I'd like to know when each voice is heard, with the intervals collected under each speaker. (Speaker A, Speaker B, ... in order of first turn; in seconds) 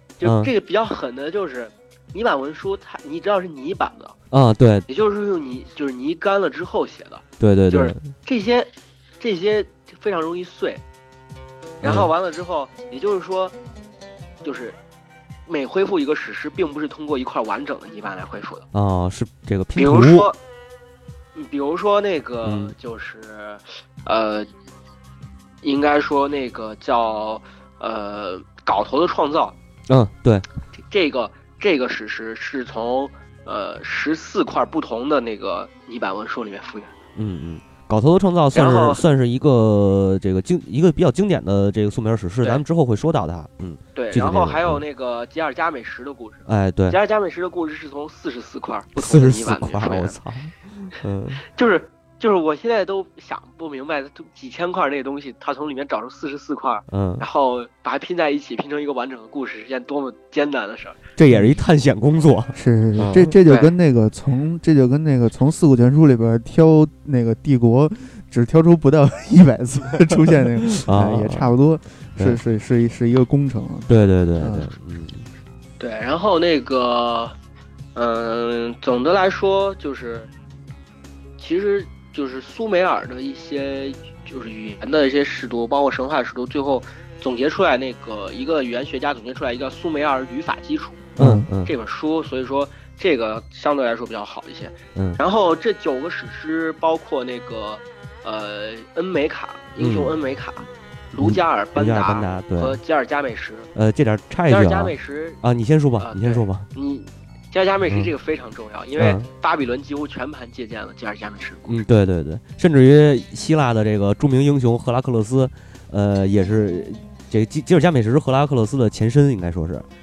Speaker A: 0.2-4.2, 4.9-10.8, 11.8-13.6, 14.4-14.8, 15.5-18.7, 19.8-20.4, 21.4-24.5, 25.6-29.6, 30.8-36.9, 38.5-39.0, 44.0-50.2, 51.5-61.0, 75.8-77.3, 78.0-80.3, 81.4-91.1, 91.7-103.7, 104.5-105.4, 106.0-111.8
Speaker B: 0.2-0.5, 4.3-4.9, 7.4-8.1, 11.8-12.1, 18.7-20.3, 22.4-22.7, 29.9-30.5, 37.2-44.8, 46.5-47.0, 49.0-51.5, 56.9-57.2, 61.2-63.3, 70.8-71.5, 73.9-75.3, 91.2-91.7, 95.0-95.2, 99.8-100.1, 101.1-102.8, 103.8-106.7, 109.0-109.3, 111.7-119.9
Speaker C: 61.3-61.6, 62.5-74.7, 91.2-91.5